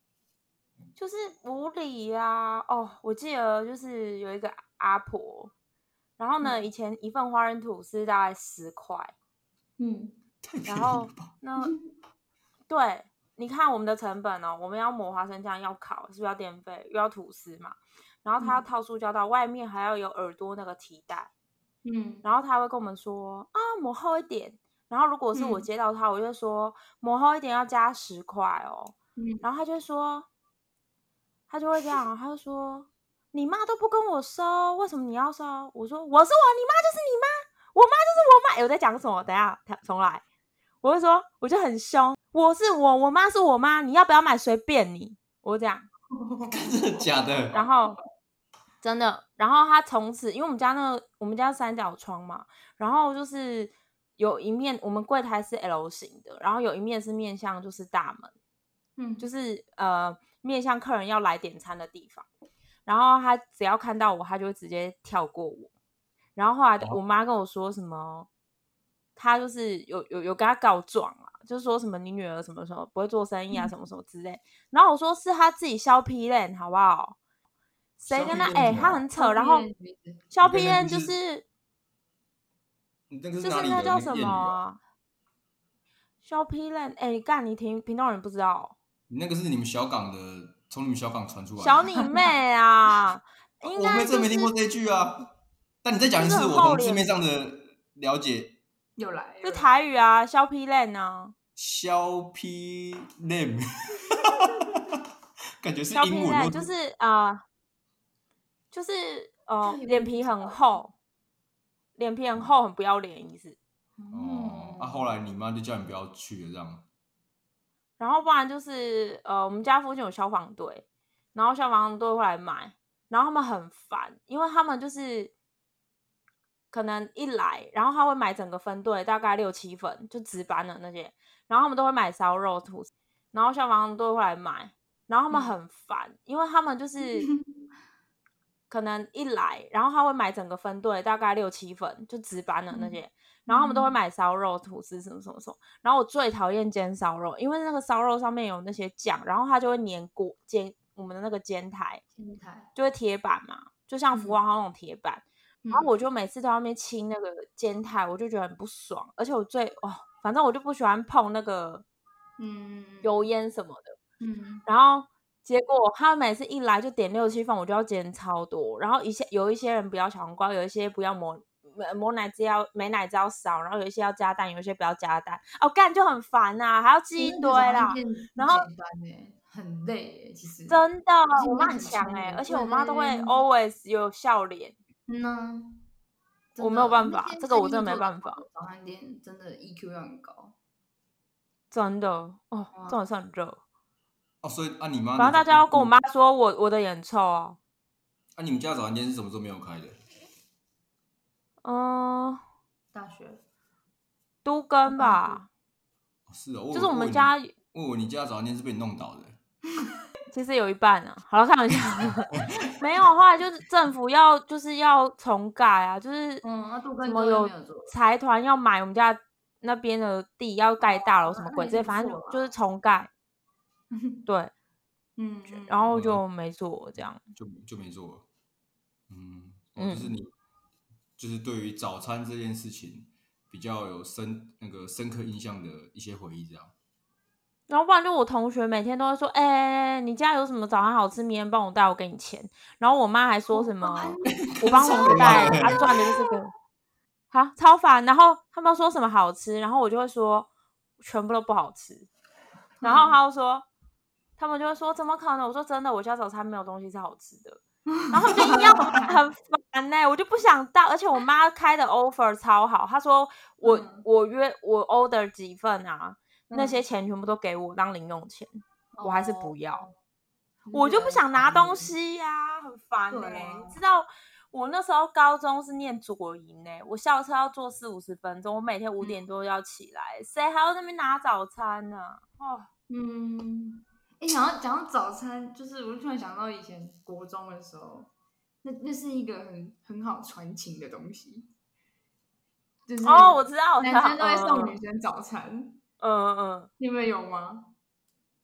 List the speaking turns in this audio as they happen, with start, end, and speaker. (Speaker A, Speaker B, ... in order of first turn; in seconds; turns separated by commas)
Speaker A: 0.9-5.5, Speaker A: 6.2-9.1, Speaker B: 9.8-10.1, Speaker C: 10.4-11.3, Speaker A: 10.7-11.7, Speaker A: 12.7-21.3, Speaker B: 21.8-22.3, Speaker A: 22.2-30.3, Speaker B: 25.3-25.6, Speaker B: 29.2-29.4, Speaker A: 31.5-40.2, Speaker A: 40.8-45.9, Speaker B: 46.1-46.7, Speaker C: 46.4-47.6, Speaker A: 47.5-48.0, Speaker A: 48.8-58.3, Speaker B: 59.0-59.3, Speaker A: 59.2-62.2, Speaker A: 62.9-65.7, Speaker A: 66.3-68.3, Speaker A: 69.2-77.2, Speaker A: 78.0-79.7, Speaker C: 78.1-79.0, Speaker B: 79.2-80.2, Speaker A: 80.3-81.4, Speaker C: 80.4-81.2, Speaker C: 83.1-84.6, Speaker A: 83.4-84.8, Speaker A: 86.2-88.7, Speaker C: 89.1-91.8, Speaker A: 91.6-94.5, Speaker C: 93.6-95.3, Speaker C: 95.8-98.6, Speaker A: 96.1-97.1, Speaker B: 99.0-99.7, Speaker A: 99.4-101.3, Speaker C: 101.6-104.9, Speaker C: 105.6-106.7, Speaker A: 105.9-107.4, Speaker A: 108.7-110.9, Speaker B: 109.6-110.7, Speaker A: 112.0-113.6, Speaker B: 114.0-115.1, Speaker C: 114.1-116.8, Speaker A: 118.0-125.3, Speaker A: 126.7-137.3, Speaker B: 135.3-135.6, Speaker B: 137.0-137.4, Speaker A: 138.7-152.0, Speaker B: 142.7-144.0, Speaker B: 152.1-152.7, Speaker A: 152.7-161.8, Speaker B: 154.1-154.4, Speaker B: 155.6-155.9, Speaker B: 162.4-163.3, Speaker A: 163.0-164.0, Speaker B: 164.2-164.6, Speaker A: 164.7-178.7, Speaker B: 177.1-183.4, Speaker A: 180.7-184.7, Speaker B: 185.1-185.8, Speaker B: 186.5-190.5, Speaker A: 186.6-188.4, Speaker A: 191.7-193.6, Speaker B: 192.7-193.0, Speaker C: 194.4-195.9, Speaker A: 195.2-197.6, Speaker C: 198.3-200.0, Speaker A: 201.6-202.4, Speaker B: 202.9-203.4, Speaker A: 204.4-205.5, Speaker B: 204.9-205.4, Speaker C: 206.3-209.4, Speaker A: 206.7-207.5, Speaker A: 210.3-216.4, Speaker B: 216.4-217.9, Speaker A: 217.0-223.1, Speaker B: 220.8-222.5, Speaker B: 223.9-224.2, Speaker A: 224.3-224.5, Speaker B: 225.2-225.9, Speaker A: 225.5-227.2, Speaker C: 225.9-226.2, Speaker C: 227.3-228.2, Speaker C: 229.1-230.3, Speaker A: 229.8-230.1, Speaker C: 231.2-236.7, Speaker A: 237.7-246.5, Speaker B: 243.5-246.2, Speaker C: 244.3-246.0, Speaker A: 247.3-250.5, Speaker A: 251.0-252.1, Speaker B: 252.8-253.2, Speaker A: 252.8-253.7, Speaker A: 254.4-257.6, Speaker B: 257.9-259.1, Speaker A: 258.1-269.9, Speaker B: 263.6-264.1, Speaker B: 266.5-266.8, Speaker B: 268.9-269.9, Speaker B: 270.6-271.9, Speaker A: 270.7-282.7, Speaker B: 273.1-273.8, Speaker B: 282.9-288.1, Speaker B: 288.6-291.5, Speaker B: 292.9-295.8, Speaker A: 293.0-294.8, Speaker A: 296.0-296.7, Speaker B: 296.8-297.7